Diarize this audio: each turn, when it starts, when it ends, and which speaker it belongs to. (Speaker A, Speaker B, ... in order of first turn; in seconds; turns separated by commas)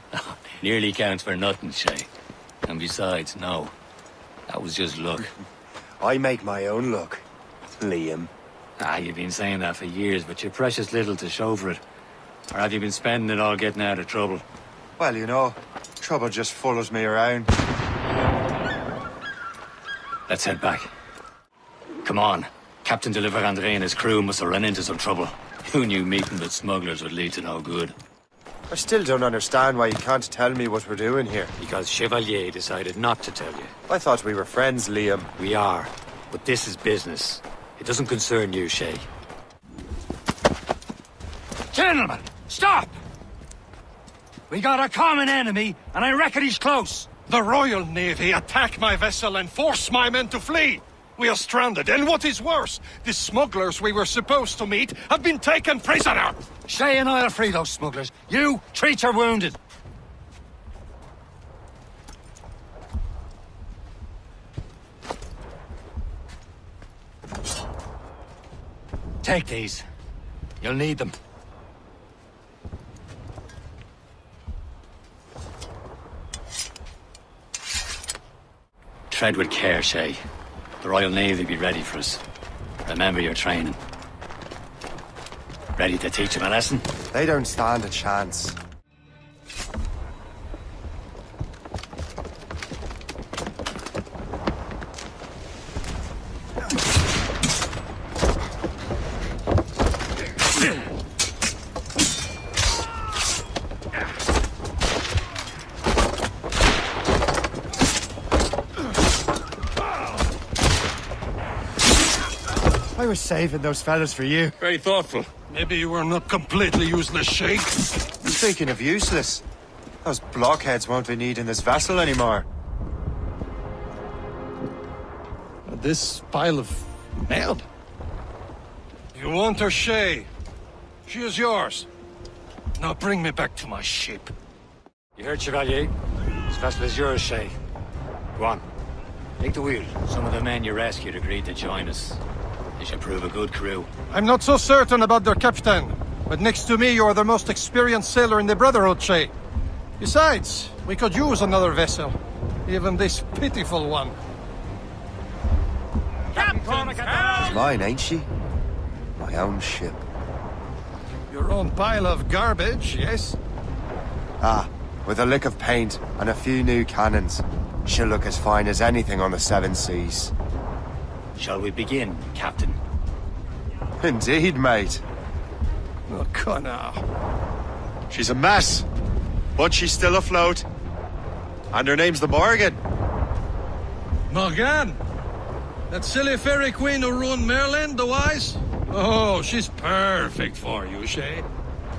Speaker A: 0.1-2.1, Speaker A: 2.7-3.7, Speaker A: 4.5-5.3, Speaker B: 6.0-7.2, Speaker B: 7.8-8.3, Speaker A: 8.8-11.8, Speaker A: 12.5-14.4, Speaker B: 15.0-17.5, Speaker A: 20.3-20.9, Speaker A: 22.0-28.0, Speaker B: 28.7-31.5, Speaker A: 31.6-33.7, Speaker B: 33.9-35.3, Speaker A: 35.4-39.1, Speaker A: 41.7-43.0, Speaker A: 44.5-47.1, Speaker C: 47.3-56.4, Speaker A: 56.7-59.6, Speaker A: 69.2-69.8, Speaker A: 70.6-71.1, Speaker A: 79.1-80.2, Speaker A: 80.8-82.2, Speaker A: 82.9-83.8, Speaker A: 85.8-86.9, Speaker B: 87.1-88.6, Speaker B: 112.9-114.6, Speaker A: 114.6-115.3, Speaker C: 115.5-117.9, Speaker B: 118.2-119.4, Speaker B: 120.0-122.5, Speaker C: 125.7-127.7, Speaker C: 129.1-130.3, Speaker C: 131.1-131.9, Speaker C: 132.8-134.3, Speaker A: 135.2-135.9, Speaker A: 136.5-137.6, Speaker A: 138.4-138.7, Speaker A: 139.4-142.2, Speaker A: 142.8-143.9, Speaker C: 144.1-149.3, Speaker C: 150.0-154.2, Speaker A: 156.3-157.6, Speaker C: 156.4-157.4, Speaker B: 157.4-158.3, Speaker B: 159.2-160.0, Speaker C: 161.3-163.4, Speaker B: 164.4-170.3, Speaker A: 171.4-172.8, Speaker B: 174.0-175.0, Speaker C: 176.1-177.0, Speaker B: 178.1-178.9, Speaker B: 179.6-180.7, Speaker B: 181.7-182.8, Speaker C: 184.3-185.0, Speaker C: 185.9-191.4